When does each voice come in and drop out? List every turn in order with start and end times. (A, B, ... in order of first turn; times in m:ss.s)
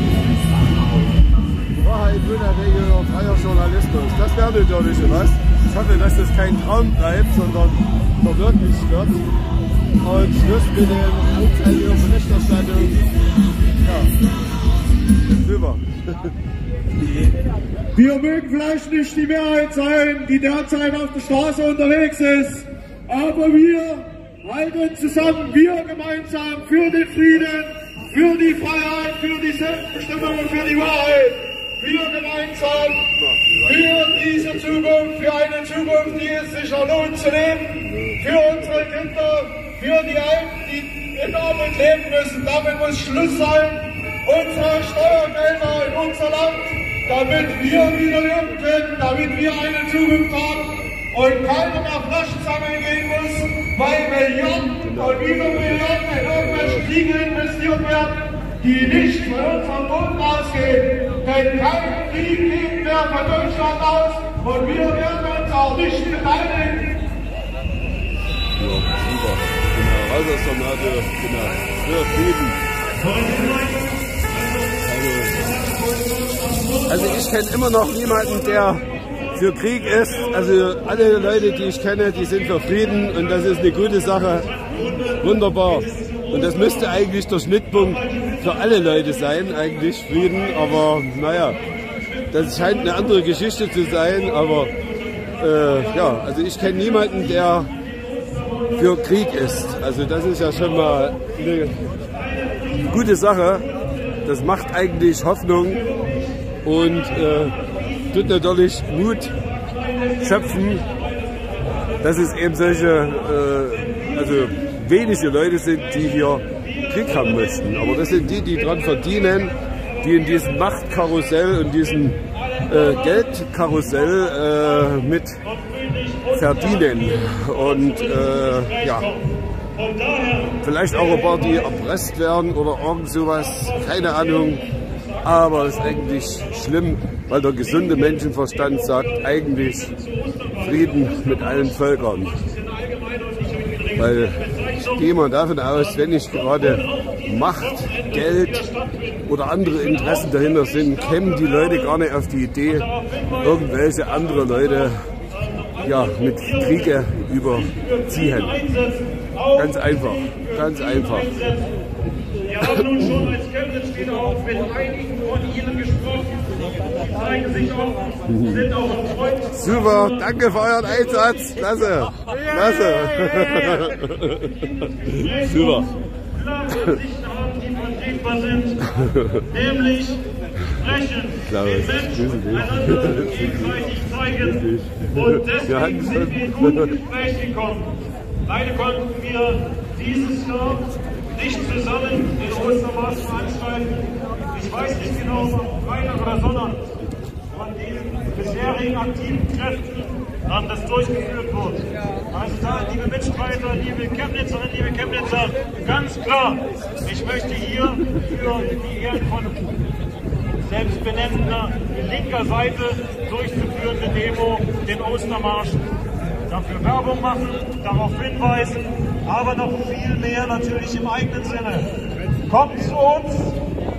0:01.8-0:09.2 A
0:10.0-0:13.0 A
0:13.8-0:14.1 A
0:15.4-0:15.8 A
0:17.9-0:33.0 B
0:29.6-0:31.1 A
0:32.9-0:34.8 A
0:33.6-1:07.0 B
0:37.9-0:38.2 A
0:54.8-0:56.9 A
1:08.6-1:12.6 A
1:13.0-1:14.7 C
1:14.8-1:15.6 A
1:15.9-1:16.9 C
1:16.9-1:24.5 A
1:24.6-1:25.2 C
1:25.2-1:31.6 A
1:32.3-1:34.7 A
1:35.4-1:37.7 A
1:38.7-1:41.9 A
1:42.7-1:43.7 A
1:44.2-1:45.9 A
1:46.6-1:47.6 A
1:48.1-1:49.4 A
1:50.2-1:50.8 A
1:52.0-2:05.4 A
2:05.4-2:11.4 C
2:06.3-2:09.1 A
2:10.6-2:14.6 A
2:13.9-2:14.6 C
2:15.2-2:20.0 A
2:15.3-2:15.9 C
2:20.0-2:21.8 C
2:20.6-2:22.4 A
2:22.4-2:24.9 C
2:23.9-2:28.7 A
2:26.1-2:29.2 C
2:29.2-2:32.9 A
2:29.9-2:31.8 C
2:32.9-2:34.0 C
2:33.4-2:35.1 A
2:35.4-2:36.8 C
2:35.8-2:38.6 A
2:37.7-2:41.8 C
2:39.5-2:41.4 A
2:42.5-2:50.2 C
2:48.3-2:48.7 A
2:49.5-2:54.5 A
2:52.3-2:54.0 C
2:55.1-2:55.9 A
2:55.1-2:58.8 C
2:58.9-2:59.4 A
2:59.5-3:16.9 C
3:01.5-3:06.9 A
3:17.5-3:29.7 C
3:30.6-3:35.8 C
3:36.5-3:41.9 C
3:42.4-3:43.6 C